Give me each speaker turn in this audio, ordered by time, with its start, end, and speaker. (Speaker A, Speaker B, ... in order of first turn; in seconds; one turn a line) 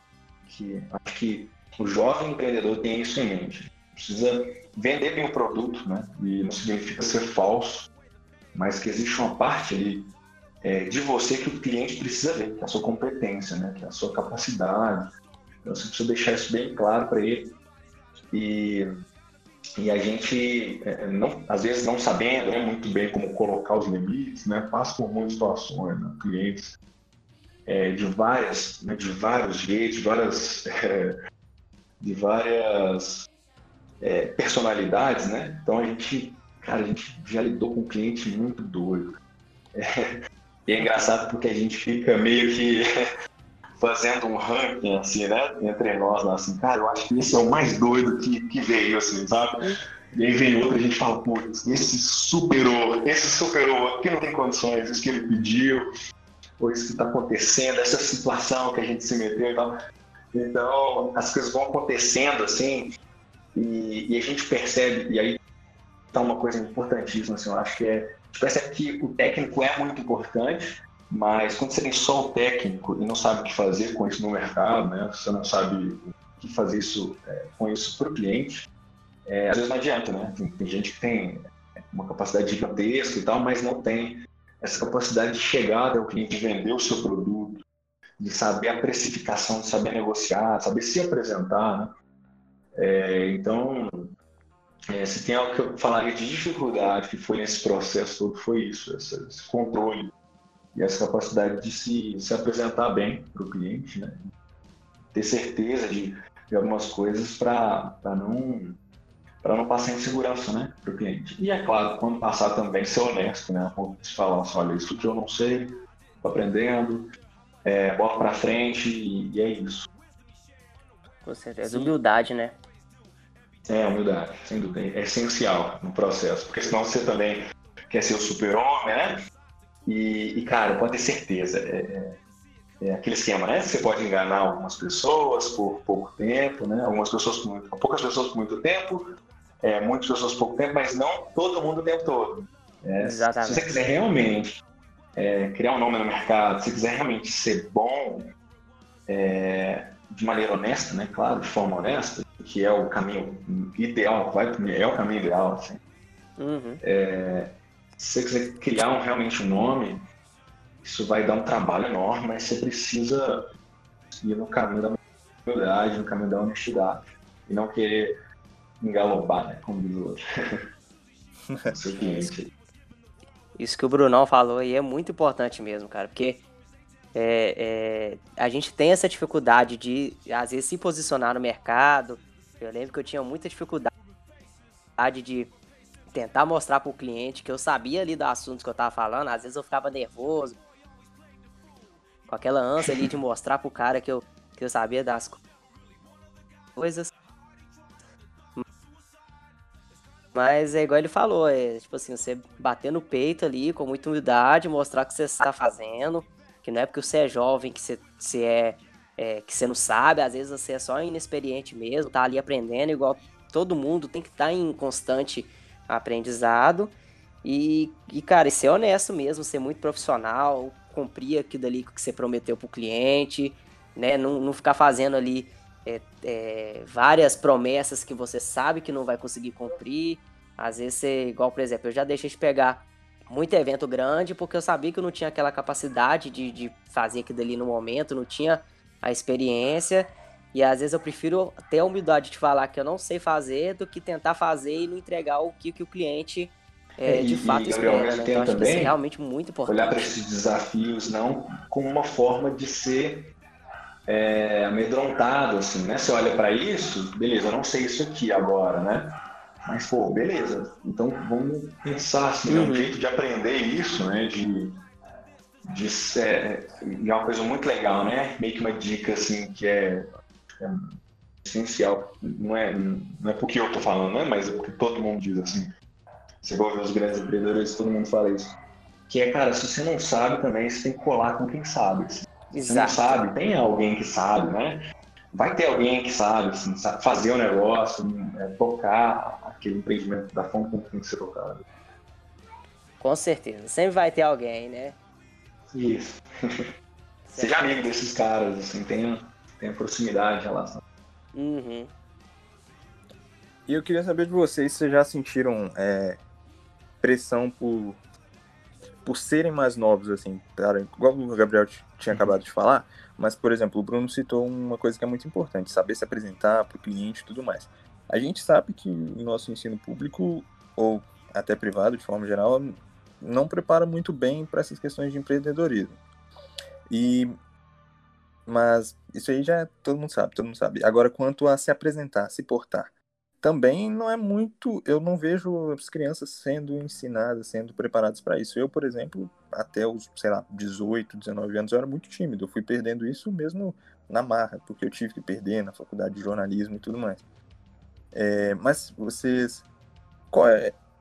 Speaker A: 0.5-7.9
Speaker A: 8.5-10.1
Speaker A: 10.6-15.1
Speaker A: 15.6-17.5
Speaker A: 18.3-18.9
Speaker A: 19.8-26.8
Speaker A: 27.6-31.2
Speaker A: 32.0-33.3
Speaker A: 34.0-39.1
Speaker A: 39.7-40.1
Speaker A: 40.6-42.9
Speaker B: 40.8-41.1
Speaker A: 43.8-55.8
Speaker A: 56.6-59.7
Speaker A: 60.3-62.9
Speaker A: 63.5-65.4
Speaker A: 66.1-78.7
Speaker A: 79.2-81.4
Speaker A: 81.9-87.6
Speaker A: 88.2-91.9
Speaker A: 92.7-94.1
Speaker A: 94.9-100.1
Speaker A: 100.7-104.2
Speaker A: 105.1-108.8
Speaker A: 109.4-117.1
Speaker A: 117.6-119.9
Speaker B: 121.2-122.6
Speaker A: 121.7-121.9
Speaker A: 123.7-129.2
Speaker A: 129.8-132.2
Speaker A: 132.8-139.1
Speaker A: 139.6-144.6
Speaker B: 143.0-143.7
Speaker A: 145.2-148.3
Speaker A: 149.1-155.8
Speaker B: 156.4-156.8
Speaker A: 156.8-160.1
Speaker A: 160.8-163.4
Speaker A: 164.2-168.2
Speaker A: 168.8-170.6
Speaker C: 171.5-171.7
Speaker A: 171.7-172.5
Speaker B: 171.9-172.3
Speaker B: 173.6-176.4
Speaker B: 177.1-183.9
Speaker B: 185.0-185.5
Speaker B: 186.1-190.6
Speaker B: 192.3-195.4
Speaker B: 196.8-197.1
Speaker B: 200.3-216.9
Speaker B: 217.4-250.1
Speaker A: 247.0-249.0
Speaker A: 249.7-253.3
Speaker A: 254.1-259.1
Speaker A: 259.6-264.7
Speaker B: 262.5-262.9
Speaker A: 265.7-270.1
Speaker A: 270.6-275.7
Speaker A: 276.4-278.5
Speaker A: 279.1-284.8
Speaker B: 282.5-283.2
Speaker A: 285.3-291.6
Speaker B: 293.0-295.0
Speaker A: 295.7-296.6
Speaker B: 297.2-297.6
Speaker A: 297.3-300.8
Speaker B: 301.3-301.9
Speaker C: 303.7-306.2
Speaker C: 307.0-308.0
Speaker C: 309.0-326.0
Speaker C: 326.9-327.3
Speaker C: 328.4-347.2
Speaker C: 348.1-349.7
Speaker C: 350.3-350.8